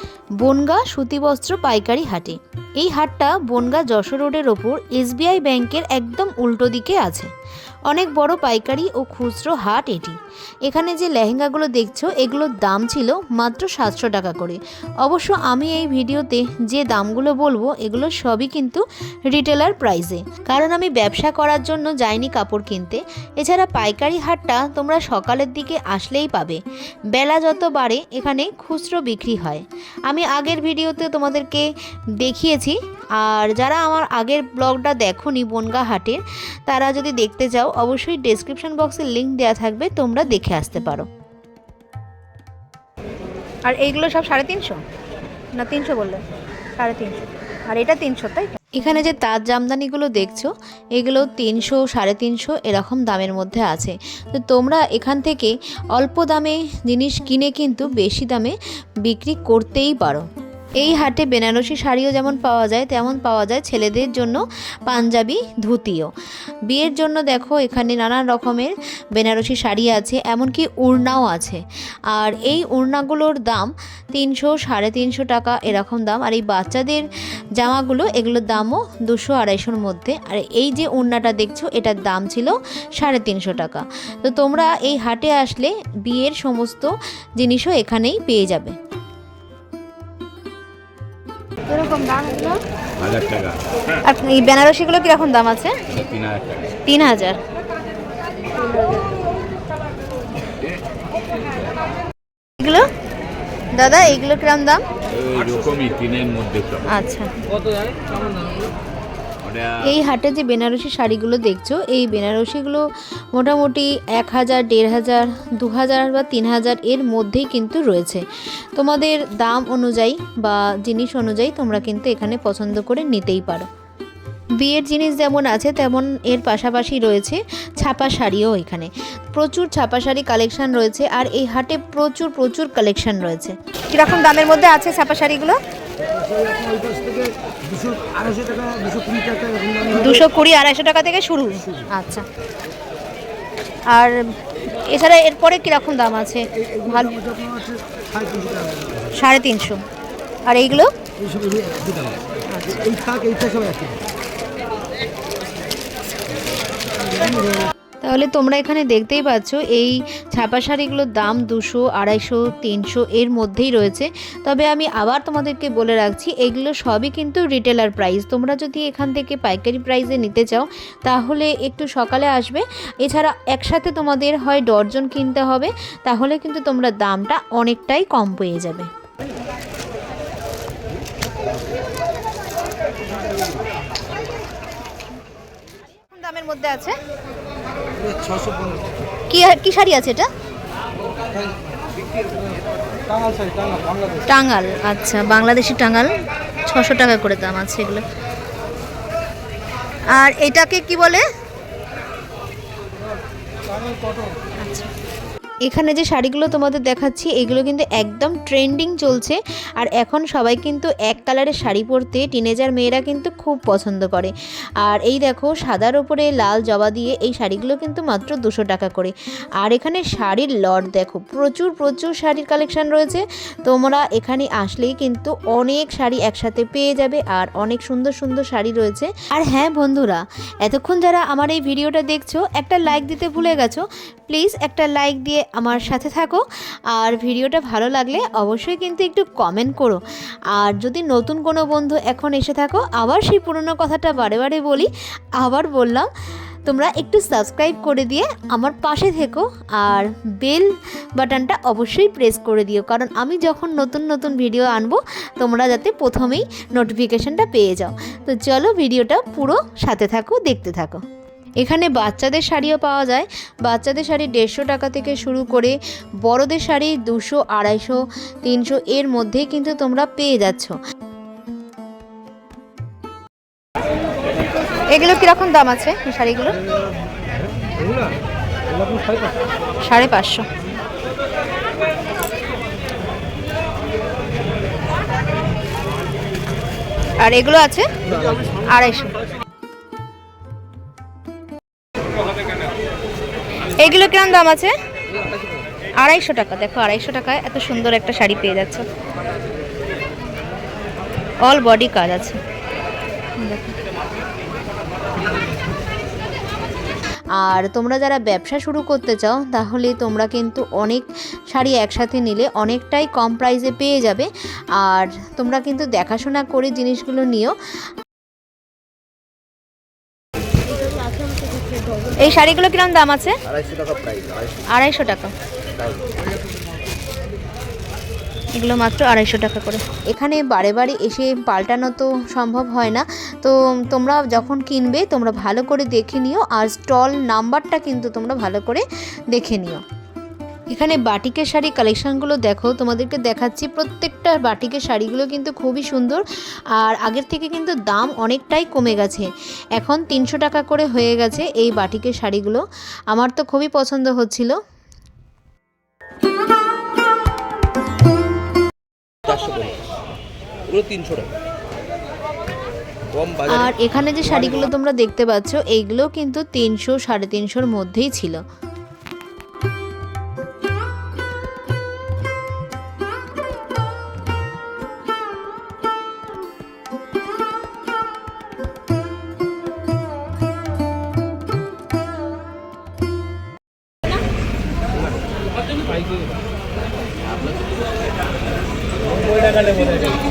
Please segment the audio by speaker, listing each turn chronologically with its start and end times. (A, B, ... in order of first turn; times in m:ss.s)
0:00.4-0:07.3 A
0:07.9-0:26.6 A
0:27.1-0:31.7 A
0:32.2-0:41.1 A
0:43.6-0:44.8 A
0:45.5-0:46.2 A
0:46.8-1:00.2 A
1:00.8-1:06.1 A
1:06.7-1:28.8 A
1:31.7-1:32.6 A
1:33.0-1:33.6 B
1:34.0-1:36.0 A
1:36.1-1:36.6 B
1:36.7-1:37.4 A
1:38.6-1:39.1 A
1:42.6-1:42.9 A
1:43.7-1:44.8 A
1:45.2-1:46.8 B
1:46.8-1:47.3 A
1:49.7-2:03.7 A
2:04.6-2:15.6 A
2:16.1-2:20.0 C
2:19.8-2:22.2 A
2:23.9-2:27.2 A
2:27.2-2:29.0 C
2:29.1-2:29.8 A
2:30.4-2:30.9 A
2:31.2-2:32.2 C
2:32.5-2:32.8 A
2:32.7-2:34.0 C
2:38.0-2:58.9 A
3:06.1-3:07.0 A
3:08.0-3:08.8 C
3:09.3-3:10.3 A
3:13.2-3:14.2 C
3:14.2-3:18.0 A
3:20.1-3:21.2 A
3:24.6-3:24.9 A
3:25.6-4:00.0 A
4:00.5-4:06.1 A
4:06.6-4:21.0 A
4:21.6-4:30.8 A
4:34.9-4:36.6 A
4:38.8-4:39.3 C
4:39.8-4:40.4 A
4:47.2-4:48.0 A
4:48.6-4:49.2 A
4:53.6-4:54.7 A
4:56.0-4:58.9 A
5:01.4-5:02.4 A
5:03.4-5:03.7 A
5:07.4-5:17.6 A
5:22.1-5:23.4 A
5:23.7-5:24.4 C
5:24.7-5:25.3 A
5:28.5-5:39.8 A
5:40.7-5:46.2 A
5:46.7-5:54.6 A
5:59.2-5:59.8 C
6:00.6-6:01.3 C
6:03.1-6:03.6 C
6:03.4-6:08.4 A
6:29.5-6:30.1 C